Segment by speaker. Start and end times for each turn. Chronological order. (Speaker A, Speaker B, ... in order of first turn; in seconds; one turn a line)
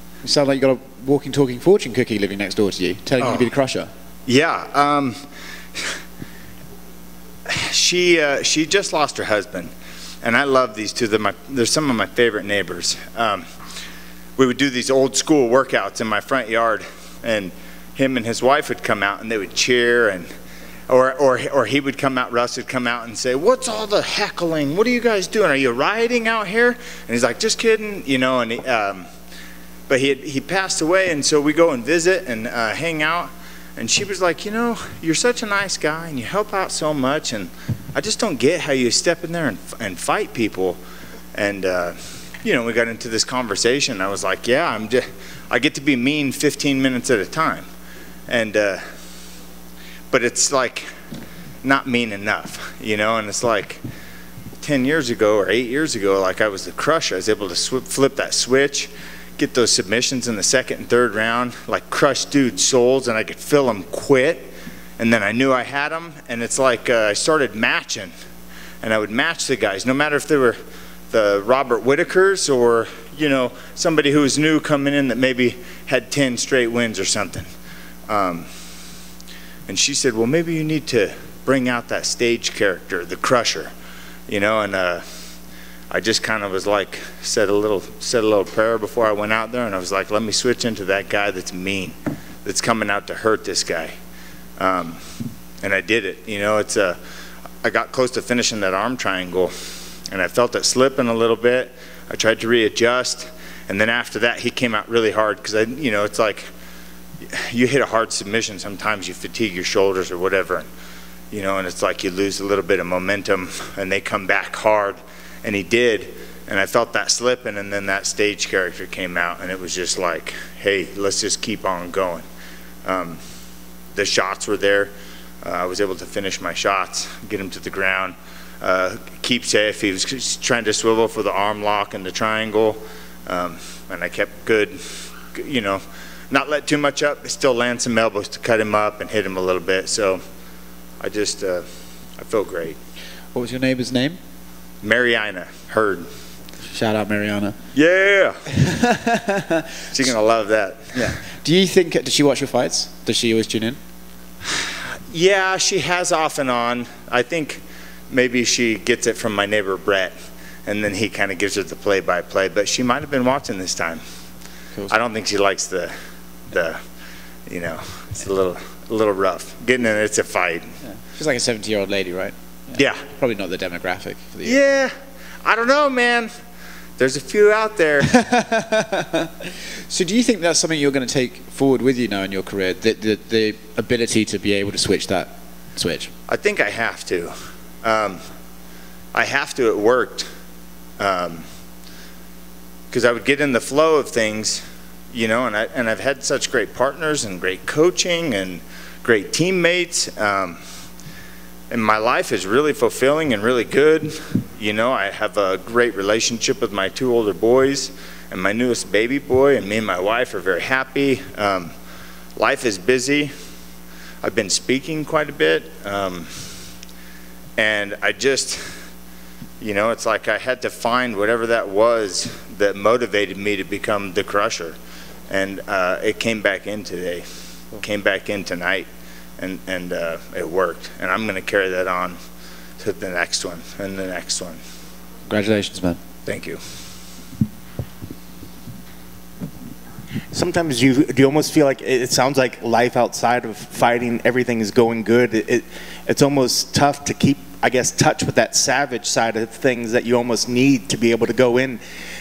Speaker A: 0.2-3.9
Speaker B: 3.2-3.5
Speaker B: 4.3-5.2
Speaker B: 7.5-9.7
Speaker B: 10.2-13.5
Speaker B: 14.4-20.3
Speaker B: 20.9-29.1
Speaker B: 29.9-40.8
Speaker B: 41.4-47.7
Speaker B: 48.3-48.8
Speaker B: 50.1-50.9
Speaker B: 51.6-53.8
Speaker B: 54.6-68.1
Speaker B: 68.8-70.6
Speaker B: 71.1-77.5
Speaker B: 78.1-78.5
Speaker B: 79.7-83.7
Speaker B: 84.3-85.0
Speaker B: 85.9-93.9
Speaker B: 94.6-95.0
Speaker B: 95.6-97.0
Speaker B: 97.6-99.5
Speaker B: 100.1-106.5
Speaker B: 107.3-110.7
Speaker B: 111.3-122.2
Speaker B: 122.8-123.2
Speaker B: 124.0-124.9
Speaker B: 125.4-140.2
Speaker B: 141.0-141.7
Speaker B: 142.2-142.8
Speaker A: 143.3-144.2
Speaker B: 144.8-146.1
Speaker A: 146.6-147.6
Speaker B: 147.7-148.4
Speaker A: 148.6-149.6
Speaker B: 149.9-151.1
Speaker A: 150.9-153.8
Speaker B: 154.5-160.1
Speaker B: 160.7-164.0
Speaker B: 164.9-165.9
Speaker B: 166.5-166.8
Speaker B: 167.5-170.7
Speaker A: 170.9-174.6
Speaker B: 172.8-173.0
Speaker B: 174.4-174.9
Speaker B: 175.4-176.3
Speaker B: 177.0-178.1
Speaker A: 178.1-179.3
Speaker A: 179.9-186.1
Speaker B: 186.3-188.2
Speaker B: 189.1-190.3
Speaker B: 191.0-191.4
Speaker B: 192.9-200.6
Speaker B: 201.7-211.7
Speaker B: 212.4-213.3
Speaker B: 214.2-216.3
Speaker B: 217.6-218.6
Speaker B: 219.6-224.8
Speaker B: 225.3-227.3
Speaker B: 227.8-228.9
Speaker B: 229.4-232.2
Speaker B: 232.8-234.6
Speaker A: 235.3-236.0
Speaker B: 236.3-236.6
Speaker C: 240.3-251.8